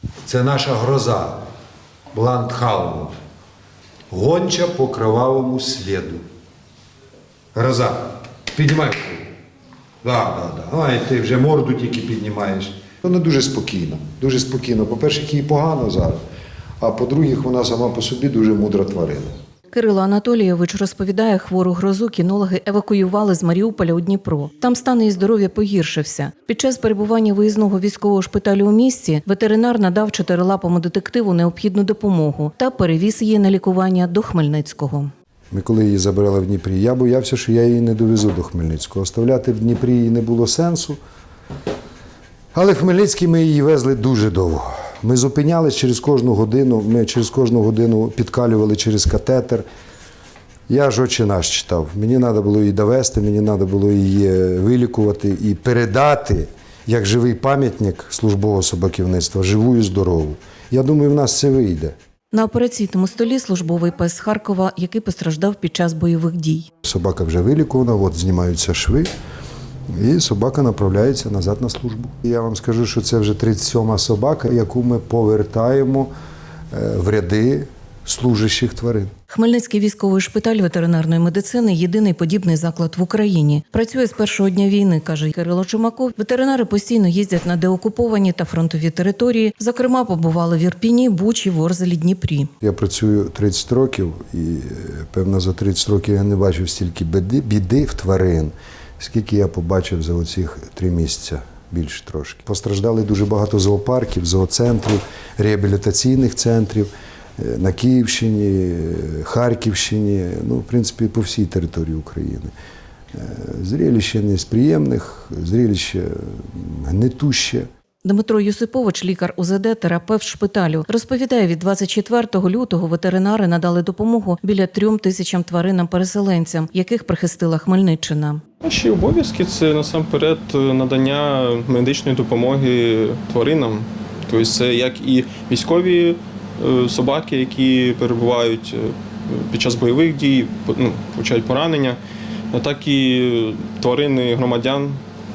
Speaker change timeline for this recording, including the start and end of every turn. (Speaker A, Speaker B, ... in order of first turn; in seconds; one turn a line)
Speaker A: 0.2-1.4
Speaker A: 2.1-3.1
Speaker A: 4.1-6.2
Speaker A: 7.5-9.3
Speaker A: 10.0-16.2
Speaker A: 16.8-19.3
Speaker B: 19.7-35.1
Speaker A: 35.5-41.0
Speaker A: 42.5-49.6
Speaker A: 50.7-61.9
Speaker B: 62.3-66.7
Speaker A: 66.8-69.1
Speaker A: 69.9-76.1
Speaker A: 76.7-79.1
Speaker B: 79.3-92.5
Speaker A: 92.6-112.5
Speaker A: 113.1-117.7
Speaker B: 118.0-128.4
Speaker C: 128.6-142.0
Speaker C: 142.5-145.0